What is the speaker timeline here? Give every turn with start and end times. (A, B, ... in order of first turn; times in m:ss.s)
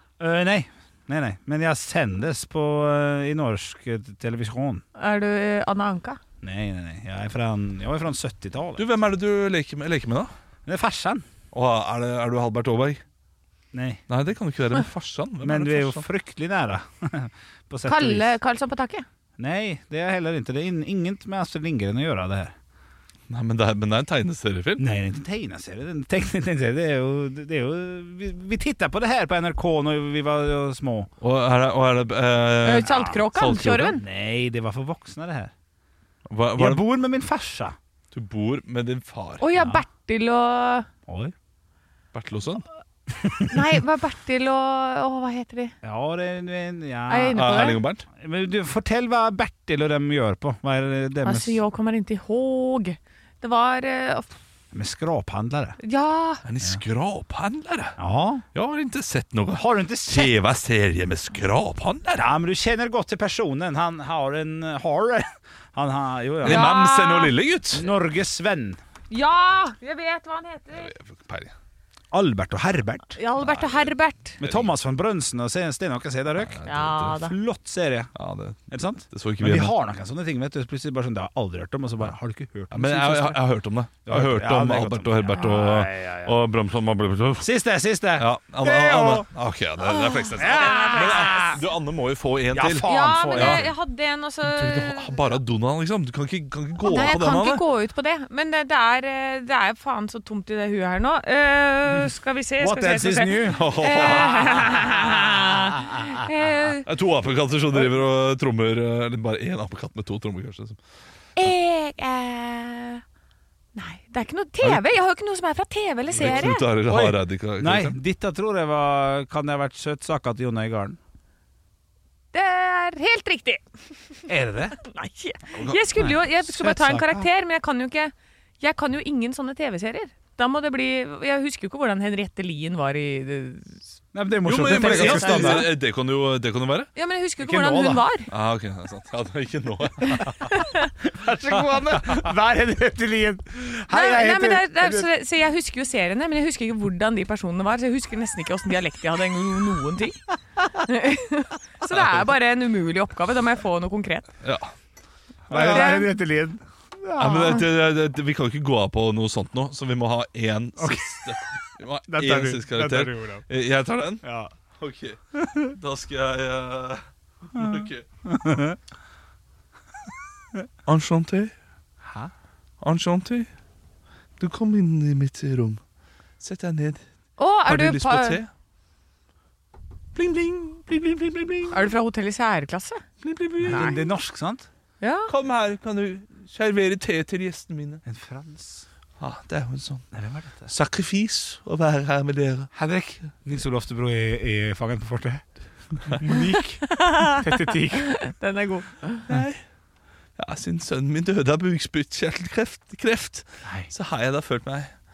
0:00.2-0:04.8 A
0:05.0-0:06.2 B
0:06.4-0:08.8 A
0:08.8-0:10.3 C
0:10.7-0:11.2 A
0:11.5-0:13.0 C
0:13.7-0:14.0 A
0:14.1-0:16.0 C
0:15.4-0:18.3 A
0:17.9-0:19.1 B
0:19.4-0:22.5 A
0:23.3-0:24.8 C
0:24.8-0:31.1 A
0:31.2-0:34.0 C
0:32.6-0:34.0 B
0:32.8-0:33.2 A
0:33.9-0:35.5 A
0:36.3-0:36.8 C
0:36.6-0:37.8 A
0:38.1-0:39.4 C
0:39.4-0:40.9 B
0:39.5-0:39.8 A
0:41.1-0:41.3 A
0:42.1-0:42.6 C
0:43.5-0:45.8 B
0:45.8-0:47.6 A
0:47.1-0:47.8 B
0:47.3-0:48.0 C
0:48.2-0:51.6 A
0:51.2-0:54.3 B
0:54.7-0:55.8 A
0:55.8-0:56.4 B
0:56.4-0:58.0 C
0:58.0-0:58.4 A
0:58.5-1:02.3 C
0:59.5-1:00.3 A
1:02.2-1:06.7 A
1:06.4-1:07.9 C
1:06.4-1:07.3 B
1:07.8-1:08.8 A
1:09.1-1:10.9 B
1:10.7-1:11.5 C
1:12.1-1:13.2 A
1:13.2-1:14.4 B
1:13.4-1:14.7 C
1:14.4-1:16.6 A
1:16.4-1:17.2 C
1:16.6-1:17.4 B
1:17.2-1:18.1 A
1:18.2-1:19.7 C
1:18.7-1:23.4 A
1:22.7-1:27.5 C
1:24.0-1:26.4 A
1:27.4-1:29.3 A
1:28.2-1:33.7 C
1:29.8-1:31.6 B
1:30.4-1:31.6 A
1:32.5-1:33.7 A
1:32.8-1:35.2 B
1:34.4-1:37.6 C
1:36.8-1:46.9 B
1:42.6-1:45.0 A
1:43.5-1:44.9 C
1:46.9-1:50.8 C
1:51.4-1:53.0 B
1:53.8-1:56.7 B
1:56.1-2:01.0 A
1:56.2-1:58.0 C
2:02.3-2:03.6 B
2:04.3-2:04.8 A
2:04.8-2:13.8 B
2:06.0-2:07.3 A
2:14.1-2:15.7 A
2:14.4-2:16.9 C
2:14.5-2:15.7 B
2:17.0-2:18.3 B
2:17.4-2:18.0 A
2:18.3-2:20.5 C
2:20.1-2:20.9 B
2:21.1-2:25.1 A
2:21.5-2:22.2 C
2:23.9-2:30.2 B
2:30.7-2:34.3 B
2:31.9-2:32.3 C
2:34.4-2:34.7 C
2:35.5-2:36.1 C
2:35.5-2:37.6 A
2:35.5-2:36.1 B
2:37.2-2:44.2 C
2:37.3-2:37.6 B
2:40.8-2:41.2 A
2:42.1-2:43.4 A
2:44.2-2:44.5 A
2:44.8-2:45.2 C
2:45.7-2:48.0 C
2:47.6-2:48.8 A
2:50.9-2:51.5 C
2:52.0-2:52.3 A
2:52.8-2:53.5 C
2:54.4-2:55.8 C
2:56.4-2:57.0 C
2:57.4-2:58.4 B
2:57.7-2:58.5 C
3:00.2-3:01.9 C
3:01.7-3:03.0 B
3:03.2-3:04.0 C
3:03.6-3:04.7 A
3:03.7-3:04.0 B
3:05.0-3:05.3 B
3:05.3-3:08.0 C
3:08.0-3:08.9 A
3:09.2-3:10.1 C
3:10.1-3:10.7 A
3:10.7-3:12.7 C
3:12.8-3:15.5 A
3:16.0-3:18.1 A
3:17.0-3:19.2 B
3:19.3-3:19.6 C
3:20.4-3:24.9 C